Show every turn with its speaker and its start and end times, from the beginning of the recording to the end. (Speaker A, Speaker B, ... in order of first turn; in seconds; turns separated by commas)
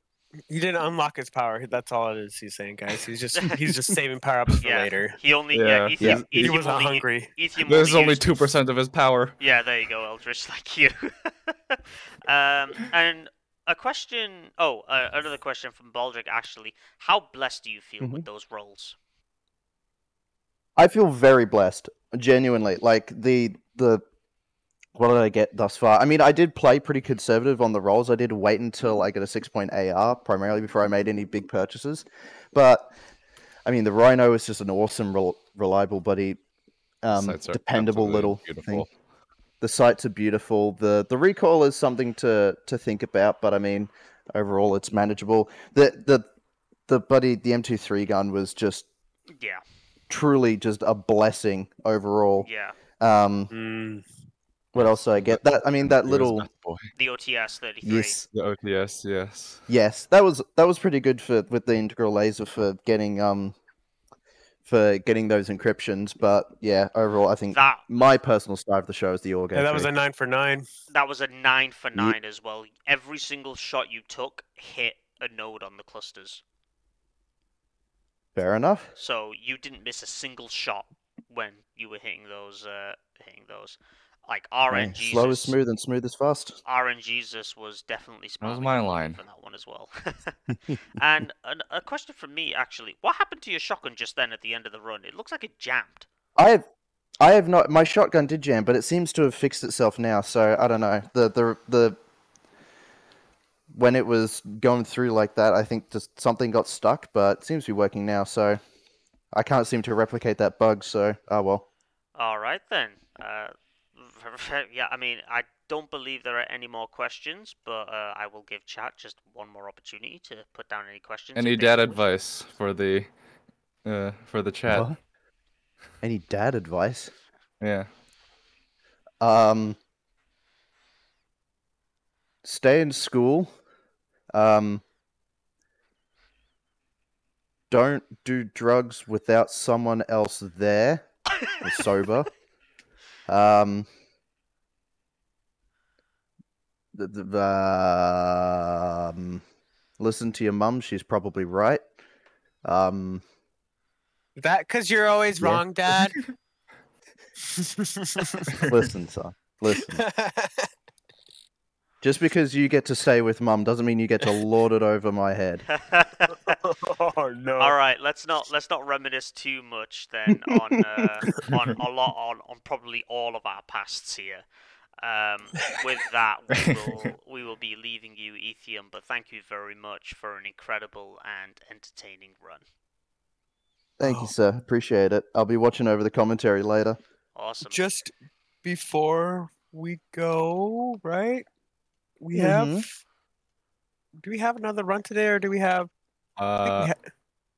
Speaker A: 0.5-5.2, Speaker B: 4.6-8.3, Speaker C: 5.5-6.5, Speaker A: 6.4-7.3, Speaker C: 7.7-9.4, Speaker B: 9.4-19.0, Speaker D: 18.0-18.3, Speaker D: 20.8-24.0, Speaker D: 24.9-32.9, Speaker D: 33.7-36.4, Speaker D: 37.0-38.9, Speaker C: 37.1-38.9, Speaker D: 39.6-46.3, Speaker D: 46.9-48.9, Speaker B: 49.4-49.6, Speaker D: 50.1-52.5, Speaker B: 52.4-52.8, Speaker D: 53.0-53.5, Speaker A: 53.5-54.0, Speaker D: 54.7-56.5, Speaker C: 54.8-56.9, Speaker B: 57.0-58.2, Speaker D: 57.8-58.2, Speaker C: 58.2-59.7, Speaker D: 59.7-63.6, Speaker D: 64.7-69.9, Speaker B: 67.5-67.9, Speaker A: 69.5-70.7, Speaker B: 70.9-76.4, Speaker D: 78.3-78.9, Speaker B: 79.0-85.6, Speaker D: 84.7-86.6, Speaker B: 86.7-96.1, Speaker C: 88.4-89.2, Speaker D: 96.4-96.6, Speaker D: 97.2-102.0, Speaker D: 103.7-108.6, Speaker D: 109.3-111.7, Speaker B: 112.2-122.0, Speaker C: 121.3-123.2, Speaker C: 123.8-124.9, Speaker D: 124.7-125.0, Speaker D: 126.0-127.2, Speaker C: 127.6-127.9, Speaker D: 129.2-129.8, Speaker D: 132.4-133.5, Speaker D: 134.3-134.8, Speaker D: 137.7-142.3, Speaker D: 143.3-143.9, Speaker D: 146.9-149.4, Speaker D: 150.0-151.8, Speaker D: 152.6-153.2, Speaker A: 154.4-156.2, Speaker D: 155.4-155.7, Speaker A: 157.5-158.7, Speaker D: 158.7-160.1, Speaker A: 159.8-160.7, Speaker D: 162.0-165.7, Speaker B: 165.7-166.6, Speaker A: 166.6-167.8, Speaker B: 167.6-174.4, Speaker B: 175.0-182.6, Speaker C: 176.5-176.9, Speaker D: 184.0-187.0, Speaker A: 184.0-184.3, Speaker B: 187.3-187.8, Speaker A: 187.7-191.5, Speaker A: 192.2-193.0, Speaker D: 192.3-192.9, Speaker A: 194.2-195.9, Speaker C: 196.4-196.9, Speaker A: 196.6-197.0